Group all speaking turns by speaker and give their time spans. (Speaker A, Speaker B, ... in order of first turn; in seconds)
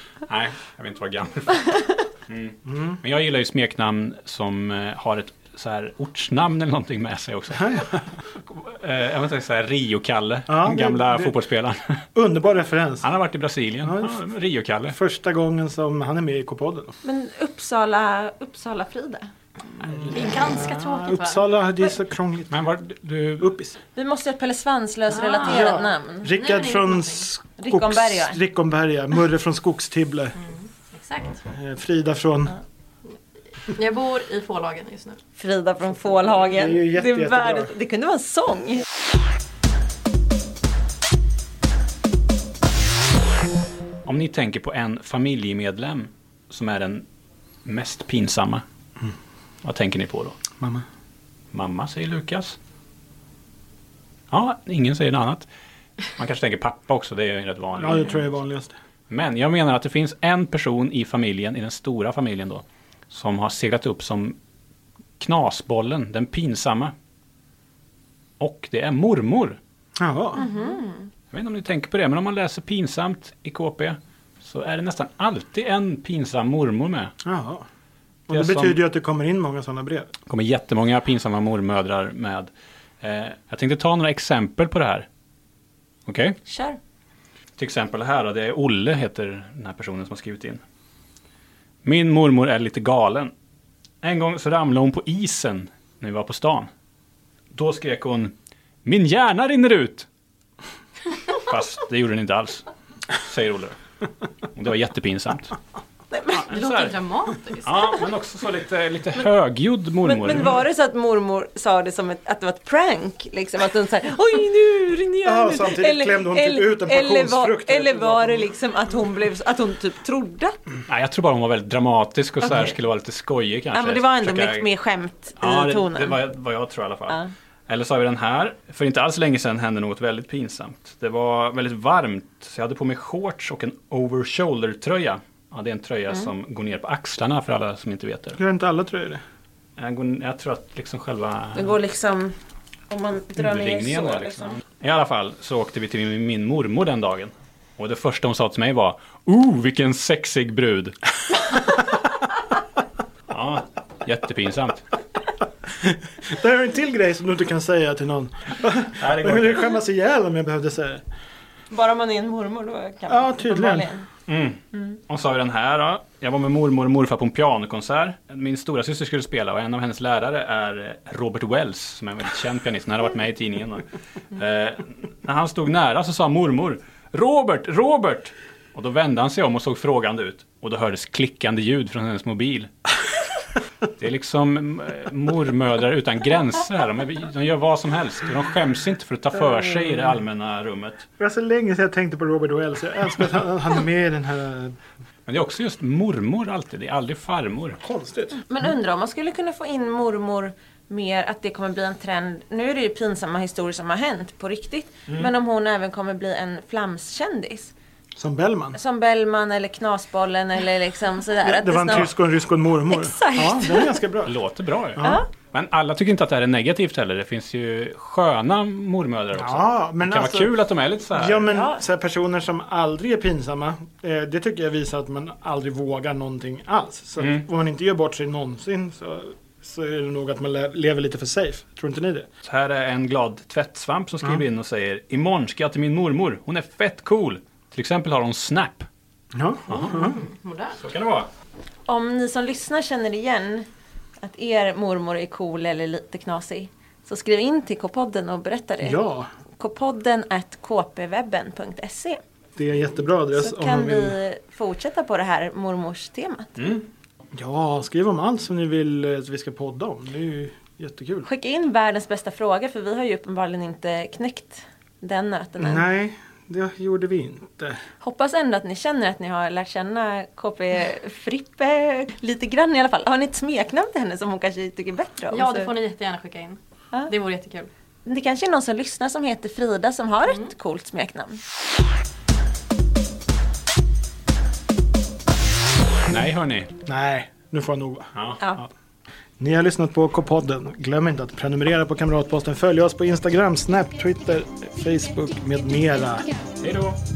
Speaker A: 0.3-12.0, 13.0-14.9, 22.5-23.5, 44.0-47.0, 47.6-48.6, 49.6-50.4, 51.5-52.6, 54.3-55.5, 56.1-58.0, 59.1-64.3, 65.2-66.9, 68.4-69.6, 71.3-77.1, 78.3-78.8, 80.3-82.5, 83.0-85.0, 86.0-86.3, 87.5-90.6, 91.8-93.3, 94.0-96.7, 97.5-98.3, 98.8-100.1, 101.4-102.7, 103.2-103.8, 104.5-105.5, 106.3-107.0, 107.6-110.6, 120.9-124.7, 125.4-138.4, 139.8-141.7, 143.4-151.9, 153.3-154.9, 159.0-159.8, 164.3-182.7, 184.0-191.0, 195.2-197.8, 214.2-221.5, 227.2-227.4, 232.4-238.9, 239.7-240.0, 240.7-241.3, 256.6-256.8, 286.1-286.7, 288.1-288.4, 296.6-297.0
Speaker B: 2.6-3.0, 7.6-7.9, 10.5-11.4, 12.2-13.1, 13.8-14.2, 14.9-16.9, 19.8-22.6, 23.4-23.8, 25.4-30.4, 31.5-32.6, 36.5-37.7, 50.6-50.8, 57.8-58.7, 70.0-70.5, 77.2-77.6, 78.3-80.1, 115.2-118.5, 138.4-139.2, 155.8-161.0, 163.1-163.9, 191.2-194.8, 197.8-198.4, 208.2-208.8, 211.4-214.4, 214.9-215.2, 219.3-220.5, 221.1-232.3, 239.3-240.2, 248.8-249.3, 252.6-254.2, 257.3-261.3, 265.6-267.8, 286.9-288.7, 289.4-296.3
Speaker C: 17.0-20.2, 23.9-26.4, 27.6-28.4, 35.4-38.8, 70.3-71.1, 86.5-86.8, 106.1-106.5, 110.0-120.6, 123.7-126.2, 141.5-142.3, 142.9-144.6, 161.7-164.1, 198.3-207.7, 208.7-212.1, 212.9-214.0, 215.0-215.3, 221.5-221.8, 241.9-243.7, 244.2-249.0, 249.6-252.2, 253.3-256.6, 261.2-265.9, 268.0-275.7, 278.0-281.4, 288.4-288.6
Speaker D: 20.1-21.5, 25.1-25.8, 26.3-27.2, 30.5-31.4, 33.8-35.2, 106.6-107.7, 240.0-240.8, 275.3-277.7